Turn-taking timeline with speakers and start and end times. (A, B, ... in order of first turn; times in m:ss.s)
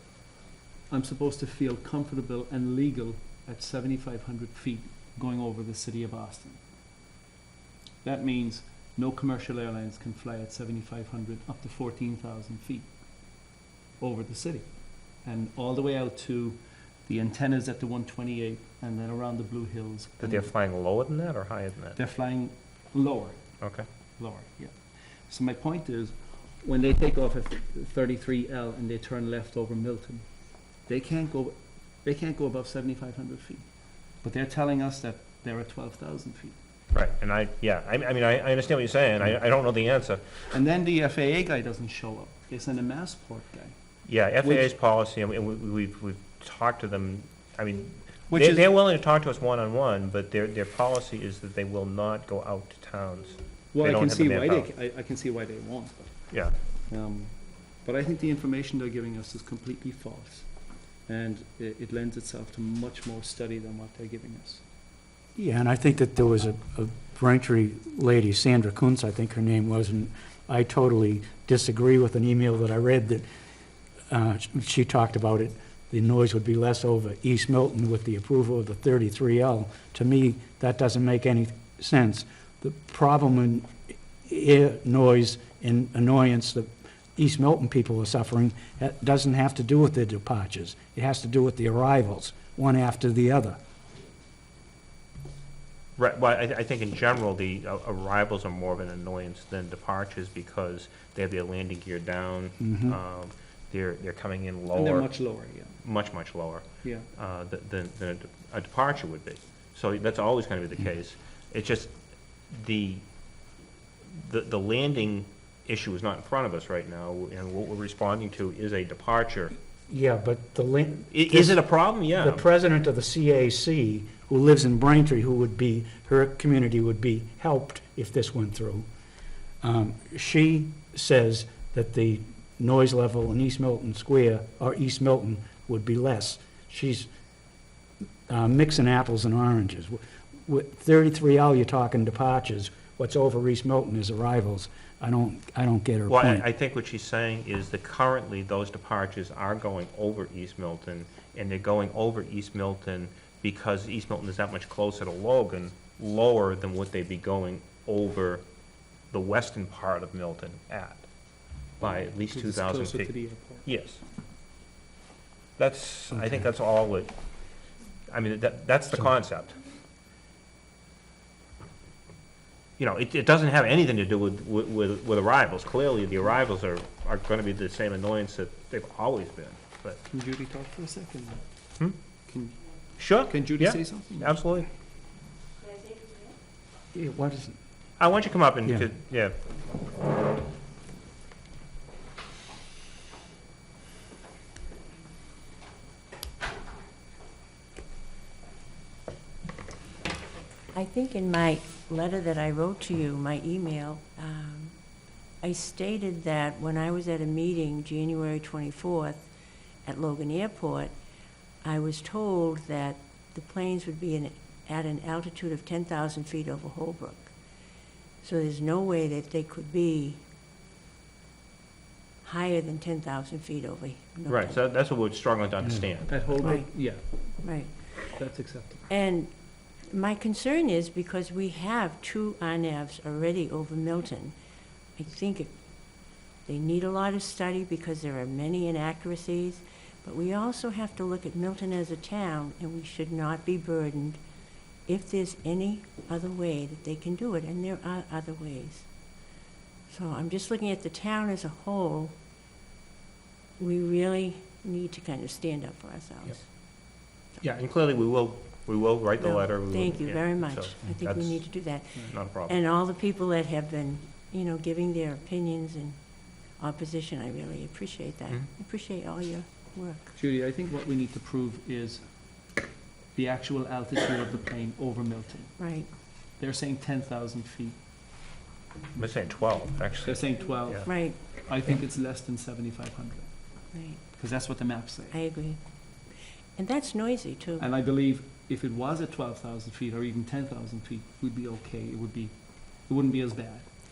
0:00.9-0:06.6 A
0:08.0-0:12.9 A
0:14.0-0:14.6 A
0:15.2-0:20.5 A
0:20.2-0:22.0 B
0:21.9-0:23.4 A
0:23.6-0:23.9 B
0:24.2-0:30.2 A
0:30.8-0:33.6 A
0:34.2-0:36.6 A
0:36.9-0:40.4 B
0:40.5-0:43.7 A
0:44.0-0:54.7 B
0:44.4-0:44.7 A
0:48.3-0:48.7 A
0:53.7-0:56.2 A
0:56.3-0:56.6 B
0:56.9-1:00.5 A
1:01.1-1:04.6 A
1:05.4-1:13.2 C
1:14.1-1:33.6 C
1:36.0-1:45.1 B
1:42.6-1:43.0 C
1:44.7-1:45.8 A
1:45.8-1:51.9 B
1:52.5-1:53.0 B
1:54.2-1:59.5 B
1:59.9-2:08.9 C
2:01.1-2:02.4 B
2:09.6-2:17.1 C
2:18.3-2:26.4 C
2:26.1-2:38.4 B
2:39.1-2:41.1 B
2:41.8-2:44.0 B
2:42.2-2:43.7 A
2:45.6-2:47.1 B
2:48.1-2:49.6 B
2:52.8-3:00.0 B
3:00.1-3:01.4 A
3:02.3-3:02.6 A
3:03.0-3:04.7 B
3:03.1-3:04.4 A
3:06.9-3:07.6 C
3:08.0-3:09.4 B
3:20.7-3:24.7 D
3:25.4-3:29.3 D
3:29.8-3:30.9 D
3:31.6-3:37.3 D
3:38.2-3:40.2 D
3:42.2-3:44.6 D
3:44.3-3:46.4 B
3:46.1-3:47.3 A
3:46.4-3:46.7 D
3:47.4-3:48.1 D
3:48.1-3:48.9 A
3:48.9-3:49.3 D
3:49.9-3:54.3 D
3:55.0-3:55.5 D
3:56.4-4:04.2 D
4:04.9-4:08.9 D
4:09.9-4:12.1 D
4:13.6-4:16.5 D
4:17.4-4:21.4 B
4:19.2-4:26.0 D
4:22.1-4:22.6 B
4:26.6-4:30.1 D
4:30.2-4:32.0 A
4:33.1-4:35.5 A
4:35.6-4:35.9 D
4:36.4-4:37.8 A
4:39.0-4:40.8 B
4:40.0-4:43.3 A
4:40.8-4:41.2 D
4:43.7-4:44.0 D
4:44.1-4:45.2 A
4:45.1-4:45.6 D
4:46.6-4:47.7 D
4:47.6-4:53.7 A